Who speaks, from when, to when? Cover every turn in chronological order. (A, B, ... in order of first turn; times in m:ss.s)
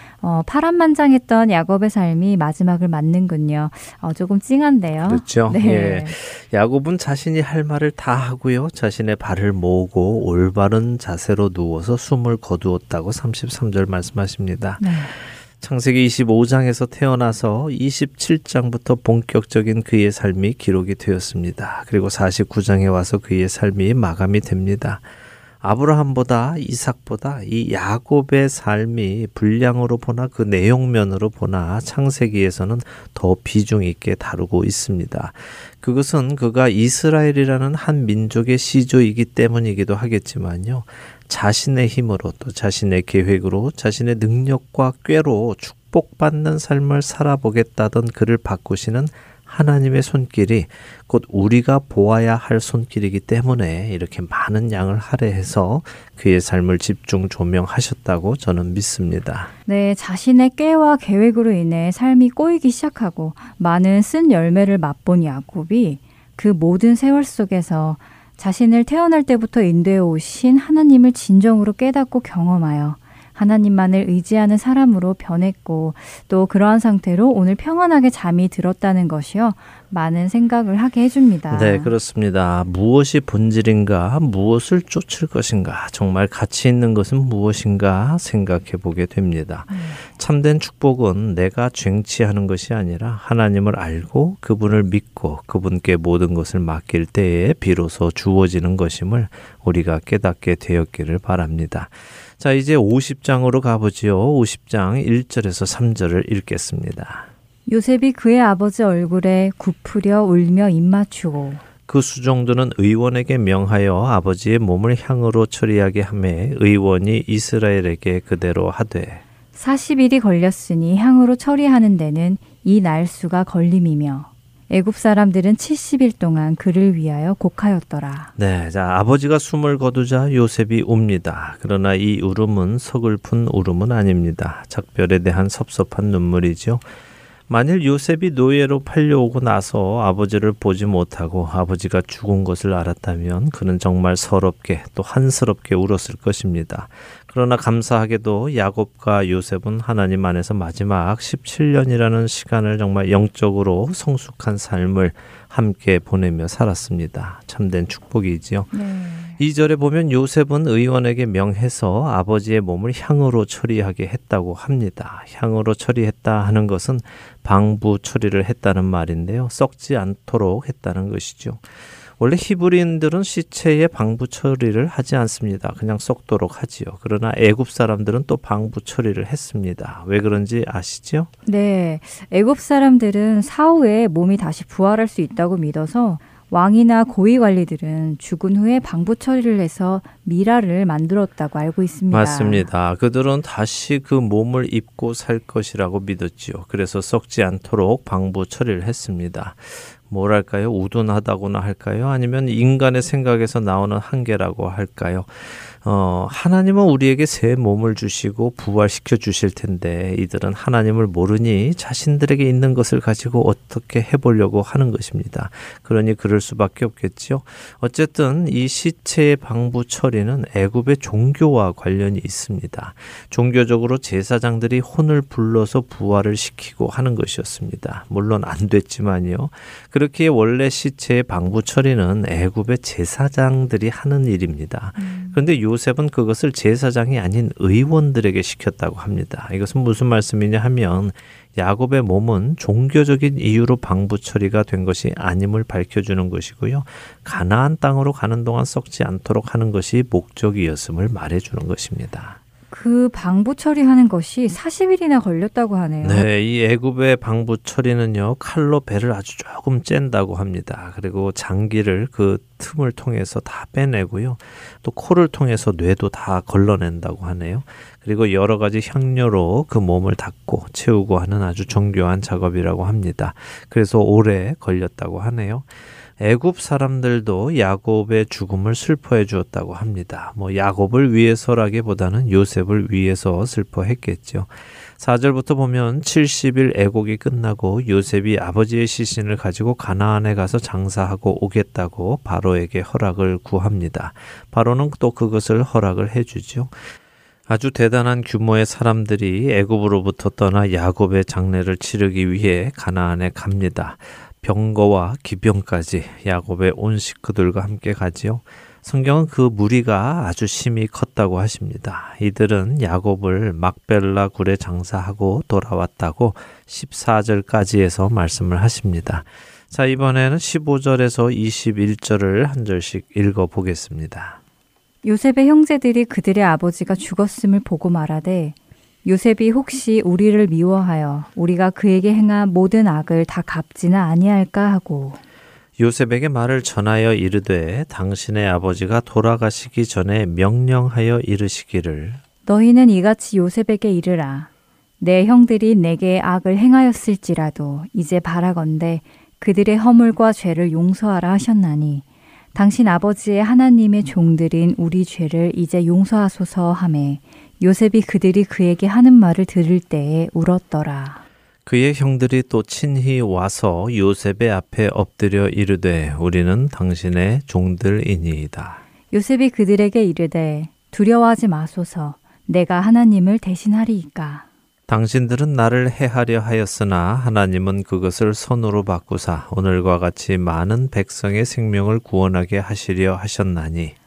0:00.2-0:06.2 A
0:05.0-0:25.0 B
0:14.8-0:15.1 A
0:25.6-0:59.5 B
0:59.7-1:21.9 A
1:21.5-1:47.3 B
1:29.7-1:30.0 A
1:47.7-1:51.6 A
1:51.8-1:59.2 B
1:59.5-2:08.3 A
2:08.4-2:16.9 B
2:17.5-2:38.7 B
2:38.7-2:39.4 A
2:39.4-3:01.3 B
3:01.4-3:12.7 A
3:12.1-4:12.4 B
3:55.0-3:55.4 A
4:12.7-4:16.2 A
4:16.0-4:56.8 B
4:57.5-5:24.4 B
5:25.0-5:35.2 A
5:35.8-5:42.2 B
5:42.4-5:44.5 A
5:45.0-6:01.2 A
6:01.6-6:08.8 B
6:09.1-6:14.4 A
6:14.9-6:23.9 B